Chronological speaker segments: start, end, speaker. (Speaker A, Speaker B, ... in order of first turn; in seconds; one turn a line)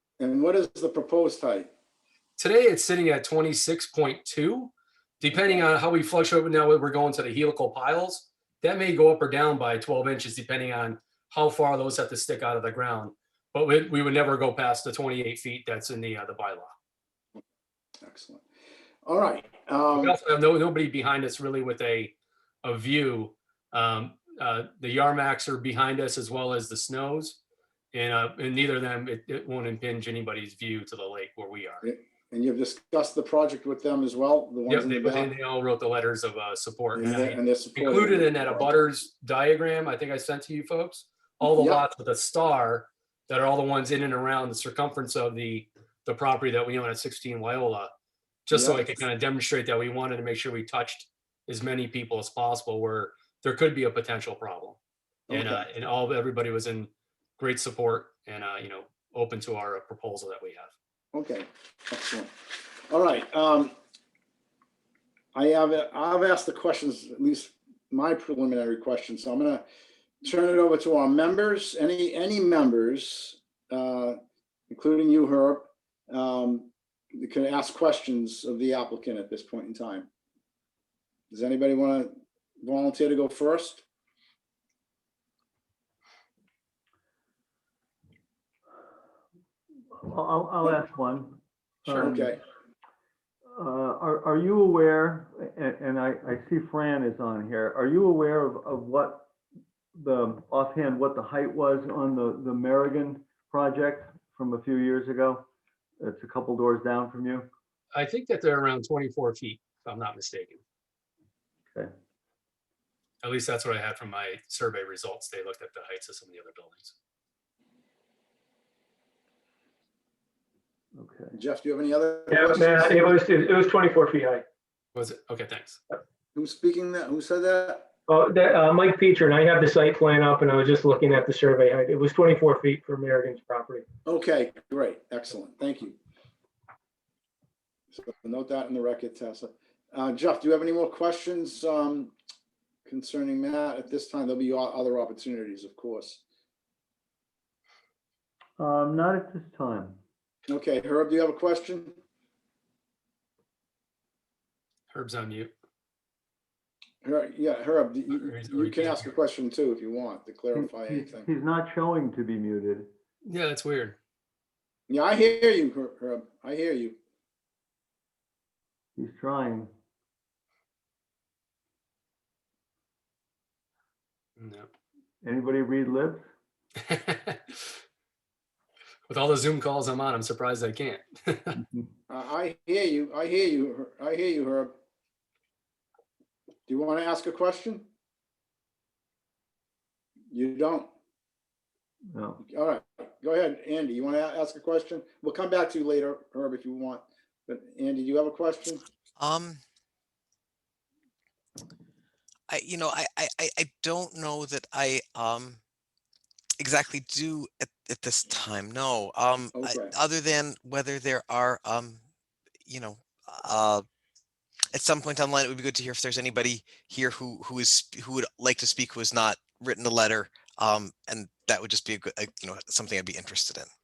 Speaker A: 0.2-1.7
Speaker B: 2.4-16.7
Speaker A: 5.3-5.6
Speaker A: 18.0-18.4
Speaker A: 19.0-20.1
Speaker B: 19.9-27.4
Speaker B: 27.9-31.9
Speaker A: 31.8-35.3
Speaker B: 34.7-47.9
Speaker A: 36.9-38.7
Speaker A: 41.4-41.8
Speaker B: 48.5-54.8
Speaker A: 48.5-48.9
Speaker A: 55.3-55.6
Speaker B: 55.3-60.7
Speaker A: 61.1-62.3
Speaker A: 62.9-63.7
Speaker A: 65.3-69.6
Speaker A: 70.2-74.2
Speaker A: 74.7-80.1
Speaker A: 81.3-83.8
Speaker C: 90.0-92.4
Speaker A: 91.9-92.4
Speaker C: 93.5-99.3
Speaker C: 100.0-105.5
Speaker C: 106.0-107.5
Speaker B: 107.9-110.6
Speaker B: 113.2-116.9
Speaker C: 120.9-121.4
Speaker A: 121.3-123.1
Speaker D: 122.3-124.4
Speaker B: 124.9-125.8
Speaker A: 126.3-127.9
Speaker D: 128.1-133.8
Speaker A: 134.1-136.0
Speaker A: 137.9-142.1
Speaker A: 142.8-146.2
Speaker C: 148.6-150.0
Speaker A: 150.5-152.0
Speaker B: 154.9-155.5
Speaker A: 157.0-161.3
Speaker B: 158.1-159.1
Speaker C: 160.5-162.9
Speaker B: 163.2-164.0
Speaker A: 164.9-167.0
Speaker C: 168.9-169.7
Speaker B: 174.4-174.7
Speaker C: 175.2-176.3
Speaker B: 176.9-177.6
Speaker B: 179.1-181.5
Speaker C: 181.6-181.9
Speaker A: 182.1-184.7
Speaker A: 186.7-187.9
Speaker A: 190.3-190.9
Speaker C: 192.1-192.4
Speaker A: 192.4-198.8
Speaker E: 199.2-199.6
Speaker E: 202.5-205.6
Speaker E: 206.6-212.0
Speaker A: 209.5-209.9
Speaker E: 212.7-213.8
Speaker E: 214.7-223.7